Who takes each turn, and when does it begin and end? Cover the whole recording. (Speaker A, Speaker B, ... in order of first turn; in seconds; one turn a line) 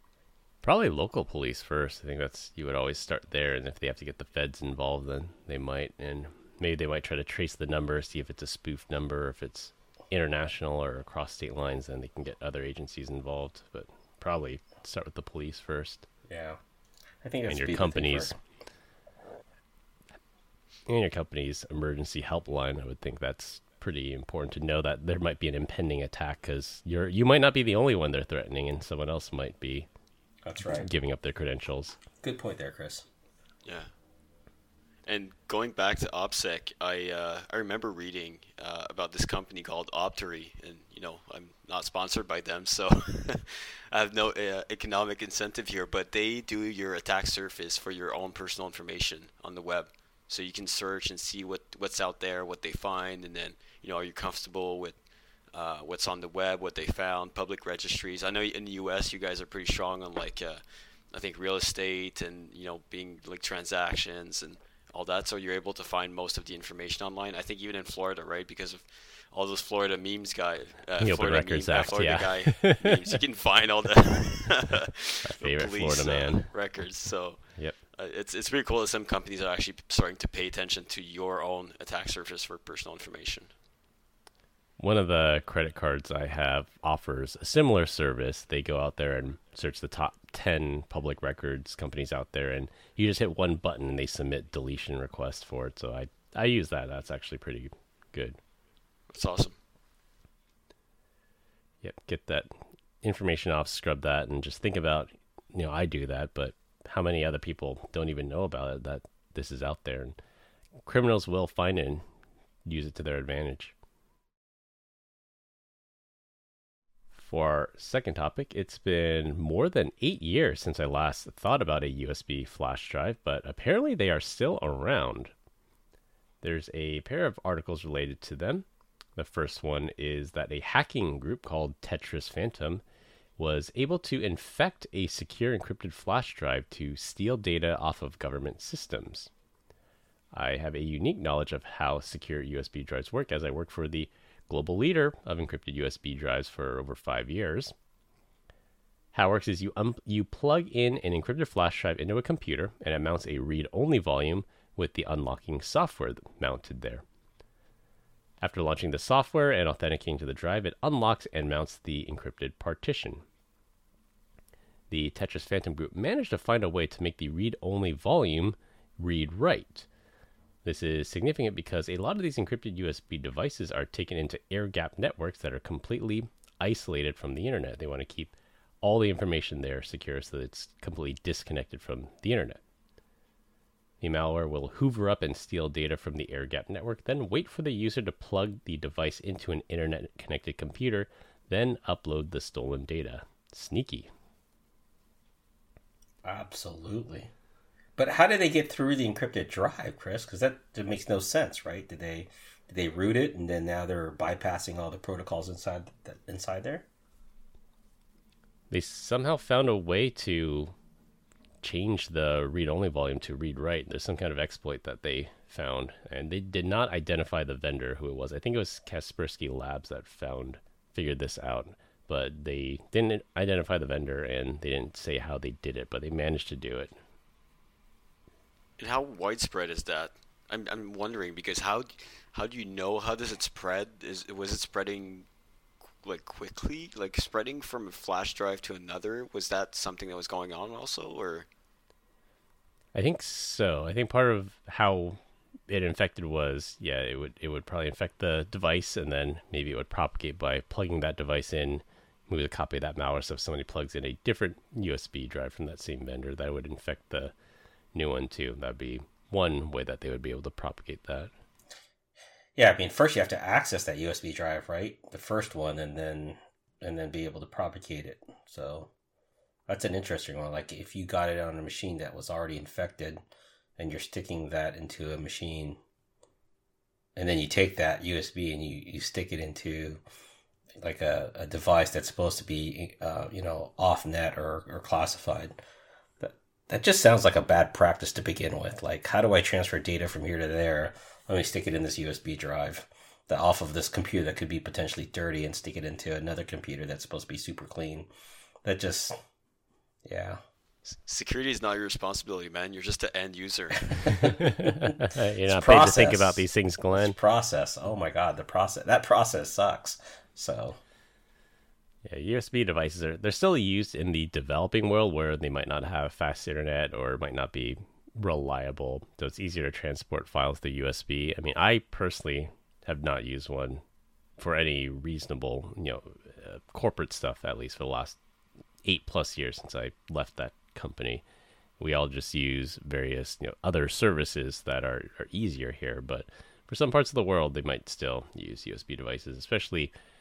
Speaker A: 0.6-16.1
Speaker B: 16.3-16.6
Speaker B: 17.2-18.4
Speaker A: 17.5-18.4
Speaker A: 20.9-29.9
Speaker B: 30.5-30.9
Speaker A: 30.6-32.0
Speaker B: 32.2-33.1
Speaker C: 33.6-33.9
Speaker C: 35.1-55.0
Speaker C: 55.5-83.5
Speaker A: 71.0-73.2
Speaker A: 75.2-76.5
Speaker A: 84.8-98.4
Speaker C: 99.1-99.5
Speaker A: 101.8-110.2
Speaker A: 110.8-112.0
Speaker A: 112.7-113.7
Speaker A: 117.1-125.3
Speaker A: 126.4-132.8
Speaker A: 133.4-139.3
Speaker A: 140.3-147.8
Speaker A: 149.1-157.0
Speaker A: 158.4-163.2
Speaker A: 164.9-169.9
Speaker A: 170.6-182.6
Speaker A: 184.0-194.1
Speaker B: 196.2-197.3
Speaker B: 198.0-206.9
Speaker A: 208.7-210.7
Speaker A: 211.6-226.9
Speaker C: 228.8-235.3
Speaker C: 236.0-241.5
Speaker A: 242.9-257.3
Speaker A: 257.9-261.3
Speaker B: 262.6-268.9
Speaker B: 269.7-273.2
Speaker B: 273.8-275.8
Speaker B: 277.2-280.0
Speaker B: 280.8-285.6
Speaker B: 286.2-298.1
Speaker B: 298.6-299.2
Speaker B: 300.1-300.4
Speaker C: 301.0-304.3
Speaker A: 304.2-307.2
Speaker B: 304.6-310.8
Speaker A: 312.1-323.8
Speaker A: 324.4-328.2
Speaker A: 328.8-331.2
Speaker A: 331.8-339.9